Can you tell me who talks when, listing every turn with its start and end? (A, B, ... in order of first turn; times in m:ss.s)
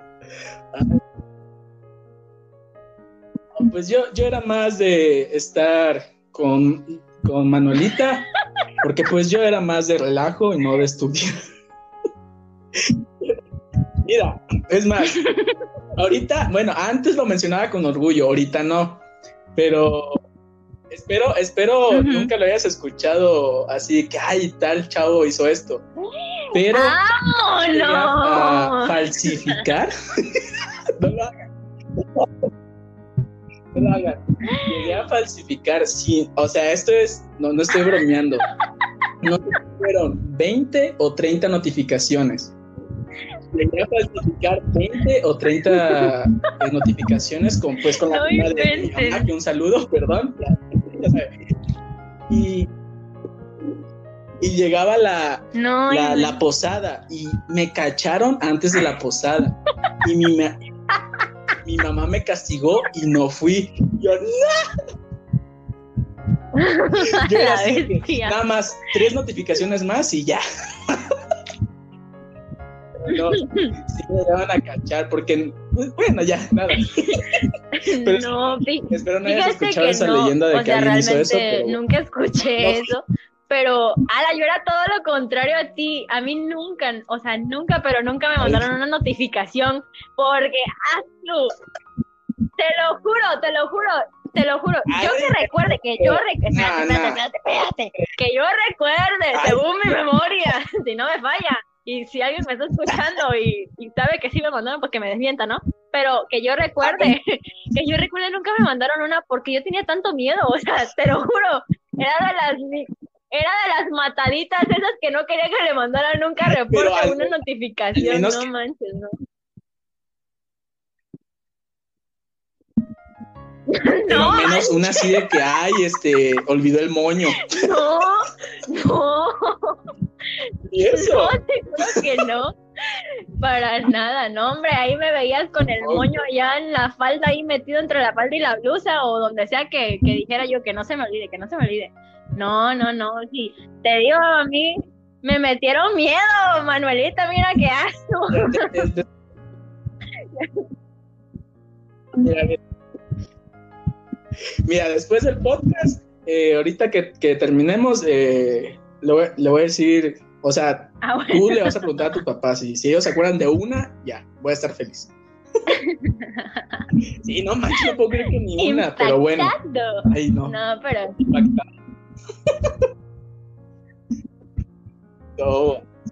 0:00.7-0:01.0 A
0:03.5-0:08.3 A
0:08.8-0:11.3 A
0:12.8-0:13.4 A
0:14.0-0:15.3 A
0:15.0-0:15.6 B
0:16.0-0:19.0 A
0:19.5-0:20.2 A
0:20.9-0:25.8 A
0:21.9-0:22.3 B
0:26.2-0:29.6 B
0:26.5-0:27.0 A
0:27.7-0:30.4 A
0:31.0-0:31.4 A
0:32.0-0:32.5 A
0:33.7-0:38.4 A
0:34.5-0:34.7 B
0:39.2-0:42.5 A
0:43.5-0:51.3 A
0:45.7-0:46.1 B
0:47.9-0:49.3 B
0:52.3-0:52.7 A
0:54.4-1:00.6 A
0:55.5-0:56.4 B
1:01.6-1:04.7 A
1:06.5-1:08.4 B
1:07.1-1:11.4 A
1:13.0-1:17.4 A
1:13.1-1:13.7 B
1:16.8-1:31.5 B
1:18.0-1:21.8 A
1:22.6-1:22.9 A
1:28.4-1:28.7 A
1:32.6-1:59.1 B
1:34.9-1:37.2 A
1:39.3-1:39.6 A
1:46.8-1:47.2 A
1:56.5-1:57.3 A
1:58.0-1:58.5 A
2:03.7-2:05.4 B
2:04.1-2:07.6 A
2:07.5-2:09.8 B
2:10.7-2:11.4 A
2:10.9-2:28.7 B
2:15.6-2:16.2 A
2:28.3-2:29.1 A
2:30.3-2:30.6 B
2:32.2-2:32.6 A
2:34.6-2:45.1 A
2:41.0-2:41.9 B
2:45.7-2:46.9 B
2:47.2-2:49.5 A
2:48.6-2:51.2 B
2:50.1-2:50.6 A
2:51.2-2:51.7 A
2:52.5-2:52.8 A
2:55.4-2:55.9 A